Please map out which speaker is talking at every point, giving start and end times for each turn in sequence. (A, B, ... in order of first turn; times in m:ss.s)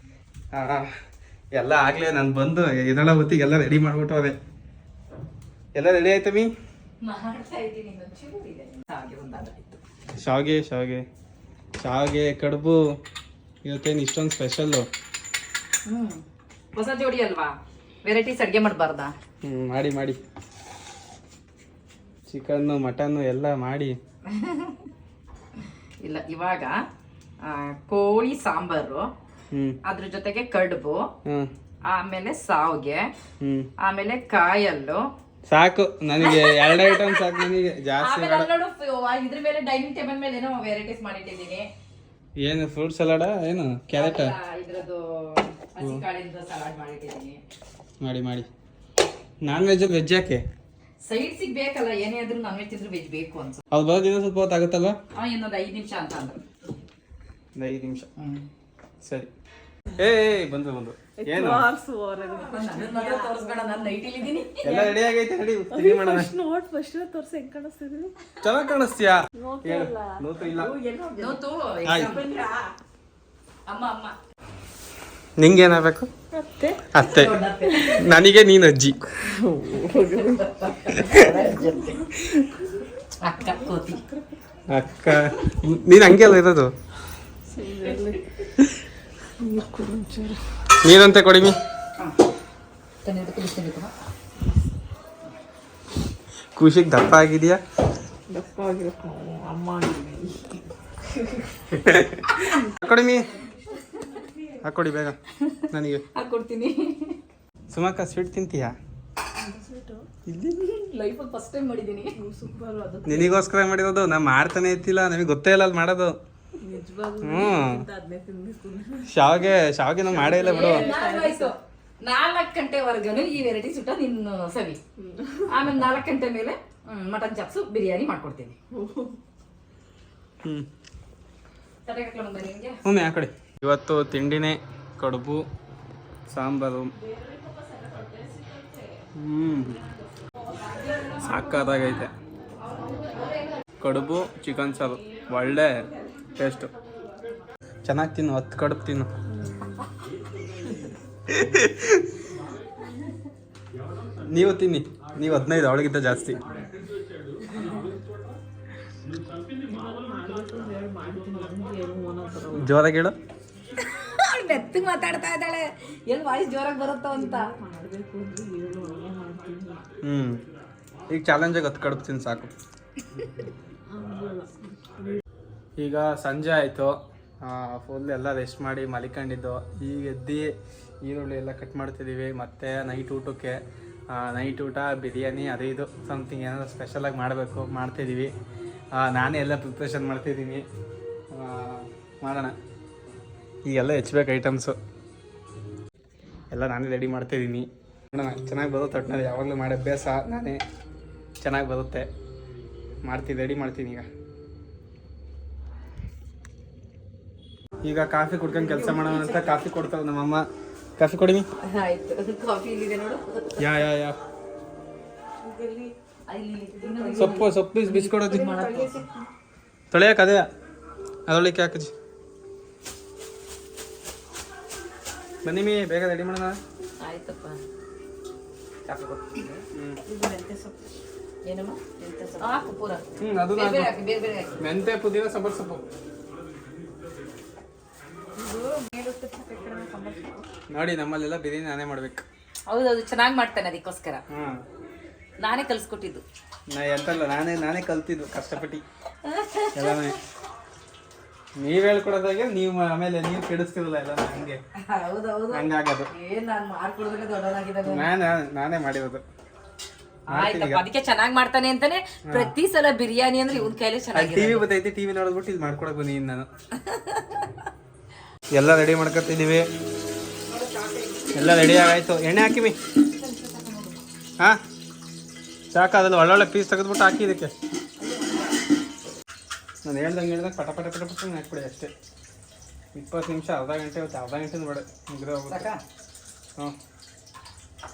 0:00.5-0:00.9 A
0:01.5-0:04.3 A
0:05.7-0:06.5 A
0:07.0-0:09.8 B
0:10.2-0:11.0 A
0:11.8-0:12.8 A
0:13.6-0:14.9 A
0:15.9-0:16.2 B
0:16.7-0:19.1 B
0:19.4-0:20.2 A
0:22.3-0:24.0 A
0:24.3-0:24.8 B
0:26.0-0:26.7 B
0:27.4-0:29.0 B
0:29.5-0:29.8 A
0:29.8-0:31.1 B
0:31.2-0:31.5 A
0:31.9-0:33.1 B
0:33.4-0:33.7 A
0:33.8-0:35.0 B
0:35.5-0:38.5 A
0:36.2-0:41.6 B
0:42.4-0:44.3 A
0:43.9-0:47.4 B
0:48.0-0:48.5 A
0:49.4-0:50.4 A
0:51.0-0:53.6 B
0:53.7-0:55.0 A
0:55.1-0:56.4 B
0:57.5-0:58.1 A
0:58.2-0:58.4 B
0:59.0-0:59.3 A
1:00.0-1:01.6 A
1:01.2-1:03.5 C
1:02.5-1:04.6 B
1:04.5-1:05.1 C
1:04.6-1:06.3 A
1:05.7-1:08.2 C
1:08.4-1:10.7 A
1:09.4-1:11.4 C
1:11.2-1:12.3 B
1:11.9-1:12.1 A
1:11.9-1:12.7 C
1:13.7-1:14.1 B
1:15.4-1:16.1 A
1:16.3-1:16.8 C
1:16.9-1:19.1 A
1:17.0-1:18.0 B
1:19.3-1:20.5 C
1:19.8-1:22.0 B
1:21.0-1:21.3 A
1:21.4-1:22.0 C
1:22.2-1:22.4 A
1:23.2-1:24.0 B
1:24.7-1:26.7 A
1:27.5-1:28.2 C
1:29.4-1:30.4 C
1:30.8-1:31.6 A
1:33.0-1:33.9 B
1:36.6-1:37.6 A
1:38.3-1:40.6 C
1:41.7-1:43.3 A
1:42.4-1:42.7 C
1:43.4-1:44.6 C
1:44.6-1:45.2 A
1:45.7-1:46.0 A
1:46.2-1:47.2 B
1:47.7-1:48.7 A
1:49.4-1:50.0 C
1:50.3-1:50.7 A
1:50.8-1:52.2 B
1:52.2-1:53.4 C
1:53.0-1:56.2 A
1:56.6-1:59.1 C
1:57.2-1:57.8 A
1:59.1-2:00.8 A
2:00.1-2:01.5 C
2:00.5-2:04.8 B
2:05.0-2:05.5 C
2:05.5-2:08.5 B
2:08.7-2:09.2 C
2:11.8-2:12.8 B
2:12.8-2:15.4 A
2:16.3-2:16.9 A
2:17.0-2:19.0 C
2:19.2-2:19.8 A
2:19.5-2:22.0 C
2:20.8-2:21.2 B
2:21.2-2:22.1 A
2:22.9-2:23.3 B
2:23.8-2:26.7 A
2:24.8-2:27.2 C
2:27.8-2:29.1 A
2:29.4-2:29.7 C
2:31.3-2:32.1 A
2:34.3-2:36.4 A
2:39.7-2:42.7 C
2:42.5-2:43.2 A
2:43.8-2:47.4 B
2:47.1-2:49.8 C
2:50.0-2:50.4 A
2:51.1-2:52.5 A
2:53.9-2:55.2 C
2:55.8-3:00.5 A
3:01.0-3:03.6 A
3:04.1-3:08.3 A
3:08.9-3:10.6 A
3:11.3-3:12.5 A
3:13.6-3:14.8 A
3:16.5-3:20.6 A
3:21.4-3:22.1 A
3:23.0-3:24.0 A
3:27.8-3:30.4 A
3:28.6-3:29.0 B
3:28.9-3:29.4 C
3:31.0-3:31.5 A
3:31.6-3:33.7 B
3:33.6-3:34.2 A
3:35.4-3:35.9 C
3:36.3-3:39.0 B
3:36.7-3:37.4 C
3:37.2-3:38.5 A
3:38.3-3:39.2 C
3:39.9-3:40.4 A
3:41.3-3:41.9 A
3:45.4-3:46.6 A
3:47.0-3:47.6 B
3:48.8-3:49.6 B
3:49.7-3:50.0 A
3:50.1-3:50.7 C
3:51.4-3:53.0 B
3:53.2-3:53.9 A
3:53.6-3:54.5 B
3:54.6-3:55.8 A
3:58.4-4:00.4 B
4:00.7-4:02.2 A
4:02.7-4:04.2 B
4:04.3-4:04.6 A
4:05.4-4:06.2 B
4:06.7-4:08.8 A
4:09.2-4:10.1 B
4:09.7-4:10.2 A
4:11.6-4:14.6 A
4:14.9-4:18.1 B
4:15.5-4:16.1 A
4:17.9-4:19.2 A
4:20.3-4:20.8 A
4:20.3-4:24.6 B
4:24.1-4:26.5 A
4:26.9-4:27.4 B
4:28.5-4:29.6 A
4:30.5-4:31.5 B
4:31.3-4:32.8 A
4:33.1-4:34.0 B
4:35.7-4:37.5 A
4:38.0-4:38.5 B
4:39.8-4:41.9 A
4:42.9-4:45.7 A
4:45.5-4:45.8 B